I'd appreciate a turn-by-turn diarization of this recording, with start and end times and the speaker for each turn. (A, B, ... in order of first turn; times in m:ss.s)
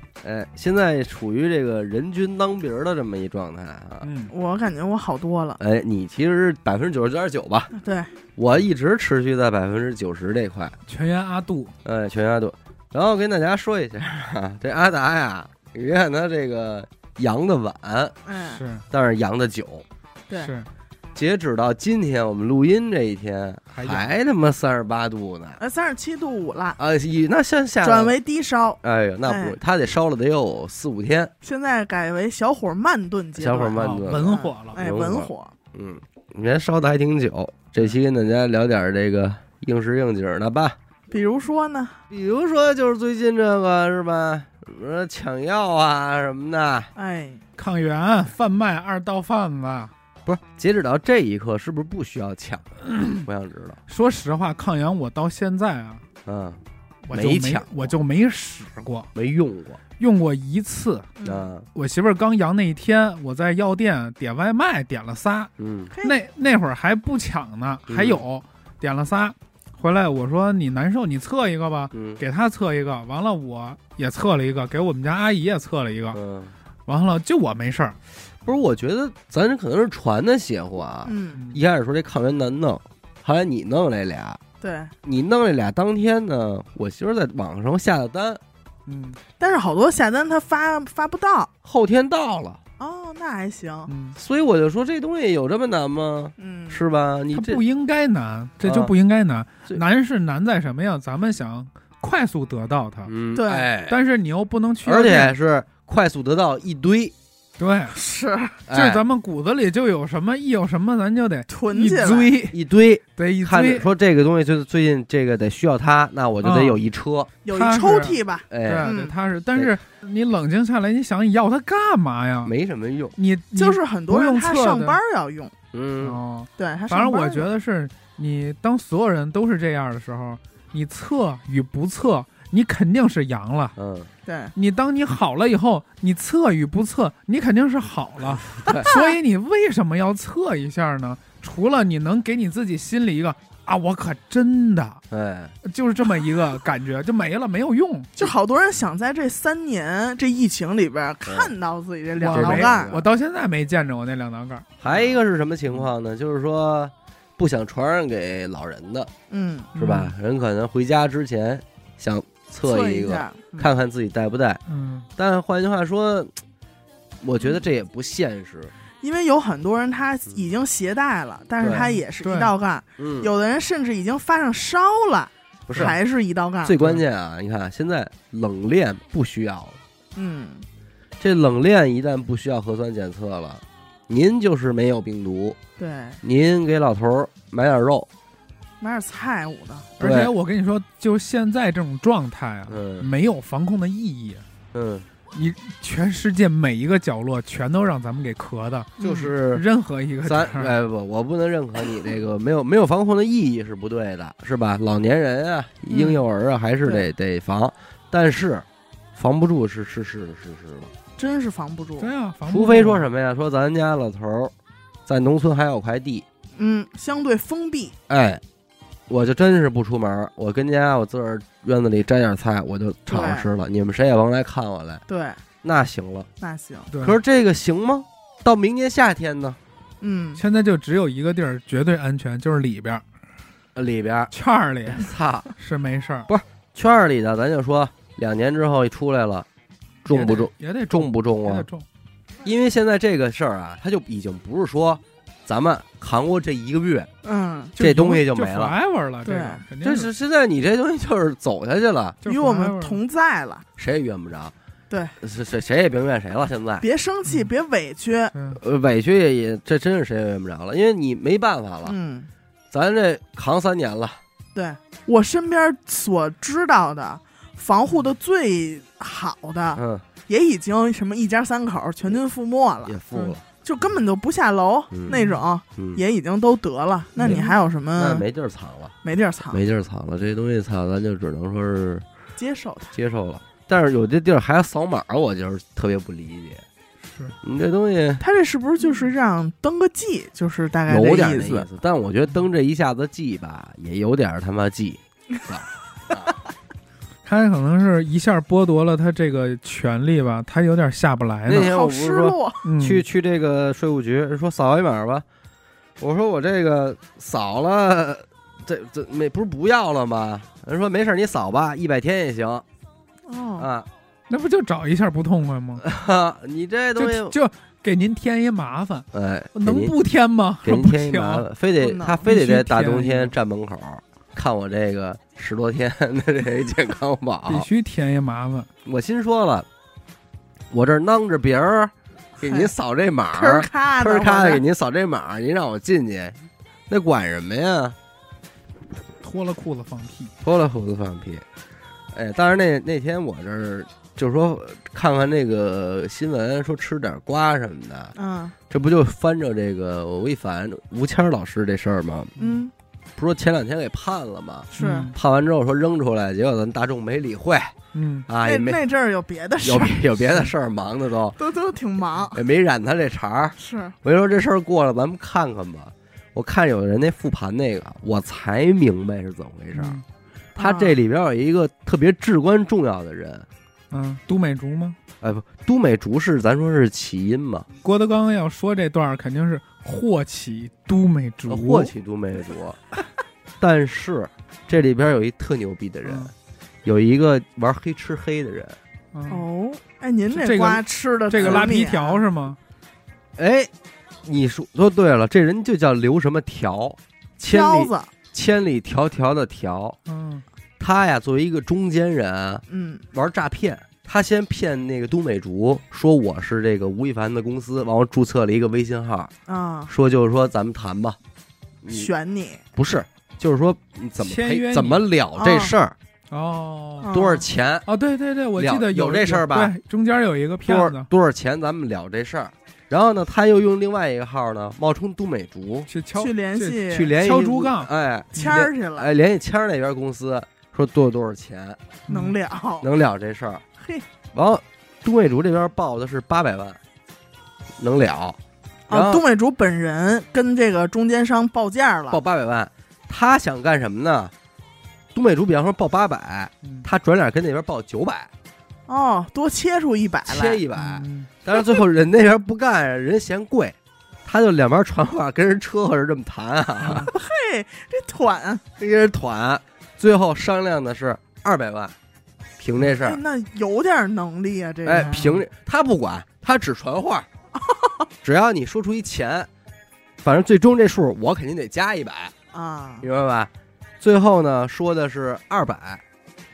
0:00.2-0:04.1 A
0:04.0-0:04.3 B
0:04.3-0:05.6 C
0:05.6-0:07.7 A
0:07.7-0:08.1 C
0:08.4-0:10.8 A
0:10.9-0:11.7 B
0:11.8-0:18.2 A
0:18.3-0:18.6 C
0:18.4-0:18.8 B
0:18.9-0:19.8 A
0:20.4-0:20.7 B
0:21.1-0:25.6 A
0:23.8-0:24.2 B
0:25.6-0:26.8 C
0:26.8-0:28.2 A
0:27.8-0:29.6 C
0:28.8-0:31.3 A
0:31.4-0:35.5 C
0:33.4-0:40.8 A
0:33.7-0:34.8 B
0:41.1-0:42.0 C
0:42.1-0:46.9 A
0:47.0-0:47.4 C
0:47.6-0:49.9 B
0:50.3-0:53.8 A
0:52.9-0:53.2 B
0:53.9-0:56.0 B
0:56.3-0:56.6 A
0:57.1-0:59.1 B
0:57.1-0:57.9 A
0:59.2-0:59.8 A
1:00.0-1:01.1 B
1:01.2-1:01.5 C
1:01.2-1:01.7 A
1:01.7-1:05.5 B
1:05.6-1:05.9 A
1:05.9-1:06.2 C
1:06.0-1:16.2 B
1:07.9-1:08.2 A
1:11.9-1:12.2 A
1:16.1-1:16.5 A
1:16.9-1:18.0 B
1:18.4-1:24.4 A
1:21.0-1:21.4 C
1:24.6-1:24.9 C
1:25.0-1:28.4 A
1:28.9-1:29.2 B
1:29.4-1:31.5 C
1:31.6-1:32.6 A
1:32.8-1:33.9 C
1:33.9-1:34.2 B
1:34.2-1:37.6 A
1:36.4-1:36.8 C
1:37.3-1:43.1 B
1:38.6-1:38.9 A
1:43.1-1:44.0 A
1:43.3-1:43.7 C
1:43.9-1:45.3 B
1:44.8-1:47.1 A
1:47.6-1:48.0 B
1:47.9-1:48.6 C
1:48.7-1:49.0 A
1:48.7-1:52.6 B
1:51.5-1:52.4 C
1:52.5-1:57.3 A
1:53.2-1:53.9 B
1:56.4-1:56.8 B
1:57.4-1:59.1 C
1:57.5-2:02.5 B
1:58.5-1:58.9 A
2:02.4-2:03.2 A
2:03.2-2:05.0 B
2:03.5-2:05.5 C
2:05.7-2:06.2 A
2:06.0-2:13.8 B
2:06.6-2:07.5 C
2:13.8-2:14.1 A
2:14.3-2:14.5 C
2:14.6-2:25.0 B
2:18.6-2:18.9 A
2:25.1-2:25.6 A
2:25.6-2:28.1 B
2:28.2-2:32.9 C
2:31.3-2:31.5 A
2:32.2-2:34.8 B
2:32.3-2:33.1 A
2:34.8-2:39.1 A
2:39.3-2:39.7 C
2:39.8-2:40.1 B
2:39.8-2:44.6 A
2:42.6-2:43.7 C
2:44.7-2:45.1 B
2:45.2-2:46.3 A
2:47.2-2:48.7 A
2:49.0-2:56.8 C
2:51.6-2:51.8 A
2:51.7-2:52.5 B
2:53.0-2:53.3 A
2:55.7-2:56.0 A
2:56.6-2:59.8 A
3:00.2-3:00.6 C
3:01.2-3:05.6 A
3:05.8-3:06.2 C
3:06.2-3:08.1 A
3:08.8-3:09.9 C
3:10.0-3:14.4 B
3:10.0-3:10.3 A
3:12.7-3:13.1 A
3:14.7-3:15.1 A
3:15.3-3:20.8 B
3:19.0-3:19.6 A
3:20.2-3:30.9 A
3:25.9-3:26.2 C
3:31.2-3:32.1 C
3:32.0-3:33.1 B
3:32.5-3:34.5 A
3:35.1-3:36.2 A
3:36.6-3:38.0 C
3:38.1-3:38.4 A
3:39.1-3:45.0 A
3:43.1-3:43.5 C
3:45.1-3:45.4 C
3:45.6-3:46.3 A
3:46.4-3:46.9 C
3:46.9-3:47.2 B
3:47.0-3:49.6 A
3:50.0-3:50.4 C
3:50.4-3:53.0 B
3:53.8-3:54.3 A
3:54.3-3:56.3 B
3:54.9-3:55.5 A
3:56.3-3:59.5 A
4:00.0-4:01.7 A
4:00.1-4:01.9 B
4:02.4-4:07.1 A
4:07.2-4:07.7 C
4:07.8-4:10.1 B
4:07.8-4:08.7 A
4:09.2-4:09.6 C
4:09.8-4:12.2 A
4:12.2-4:13.0 B
4:12.2-4:13.6 C
4:13.8-4:14.5 A
4:14.9-4:15.2 C
4:15.2-4:16.8 A
4:16.8-4:18.3 C
4:18.3-4:18.6 B
4:18.6-4:22.0 A
4:21.9-4:22.3 C
4:22.7-4:24.2 A
4:24.6-4:38.2 C
4:29.8-4:30.0 A
4:32.9-4:33.4 A
4:34.9-4:35.2 A
4:35.1-4:35.4 B
4:37.2-4:38.9 A
4:39.0-4:39.6 C
4:39.5-4:42.0 A
4:42.4-4:43.0 C
4:42.9-4:46.6 A
4:47.1-4:47.4 B
4:47.4-4:48.2 A
4:48.2-4:51.7 C
4:50.9-4:56.3 A
4:57.2-5:01.7 B
5:01.5-5:05.2 A
5:01.5-5:02.6 C
5:02.6-5:03.0 B
5:06.0-5:12.6 A
5:13.3-5:13.7 C
5:13.6-5:13.9 A
5:14.3-5:15.8 B
5:15.8-5:17.3 A
5:17.0-5:21.5 B
5:19.1-5:20.0 A
5:20.6-5:27.7 A
5:21.8-5:22.2 C
5:22.2-5:23.3 B
5:27.5-5:28.7 B
5:28.8-5:29.7 A
5:30.7-5:36.4 A
5:32.4-5:32.7 C
5:33.3-5:34.6 C
5:36.9-5:38.0 A
5:39.2-5:40.3 B
5:40.4-5:41.4 A
5:42.1-5:48.1 A
5:48.2-5:48.5 C
5:48.7-5:52.3 A
5:52.4-5:52.7 C
5:53.2-5:57.8 A
5:54.7-5:55.1 C
5:54.8-5:55.2 B
5:57.9-5:58.3 B
5:58.3-5:58.8 A
5:58.4-6:00.0 C
5:59.6-6:01.4 A
6:00.3-6:00.5 B
6:01.4-6:02.4 C
6:02.3-6:10.0 A
6:03.6-6:04.0 C
6:09.7-6:10.0 B
6:10.6-6:11.0 C
6:10.6-6:13.5 A
6:13.9-6:15.0 B
6:15.2-6:17.7 A
6:17.8-6:21.9 B
6:21.5-6:22.8 A
6:23.6-6:26.3 A
6:26.0-6:26.3 B
6:26.8-6:28.8 A
6:29.1-6:29.5 B
6:29.3-6:32.2 C
6:30.3-6:32.6 B
6:31.3-6:31.8 A
6:33.4-6:33.7 A
6:34.2-6:40.0 A
6:37.5-6:38.1 C
6:40.1-6:40.4 B
6:40.8-6:49.3 A
6:42.7-6:43.0 C
6:49.5-6:49.9 C
6:49.9-6:51.2 A
6:51.8-6:52.1 A
6:51.9-6:52.6 C
6:52.8-6:56.0 A
6:54.2-6:55.0 B
6:55.4-6:55.8 C
6:56.3-6:57.2 B
6:57.0-6:57.4 C
6:57.1-6:57.9 A
6:57.9-7:01.1 B
6:58.6-6:59.7 A
7:00.6-7:05.9 A
7:05.9-7:08.6 B
7:06.2-7:07.1 C
7:06.9-7:11.8 A
7:08.4-7:09.1 C
7:12.1-7:12.4 B
7:12.1-7:12.9 C
7:12.8-7:13.6 A
7:13.8-7:14.0 C
7:14.3-7:16.8 A
7:17.8-7:18.4 A
7:18.9-7:22.2 C
7:18.9-7:19.2 A
7:22.1-7:24.3 A
7:25.1-7:28.3 A
7:28.9-7:30.6 C
7:30.3-7:37.1 A
7:30.8-7:31.3 B
7:36.9-7:38.6 C
7:38.8-7:42.0 A
7:42.6-7:43.2 A
7:43.0-7:45.3 C
7:44.9-7:47.3 A
7:44.9-7:45.4 B
7:48.2-7:49.5 A
7:50.2-7:52.3 A
7:52.5-7:53.1 C
7:53.0-7:56.0 A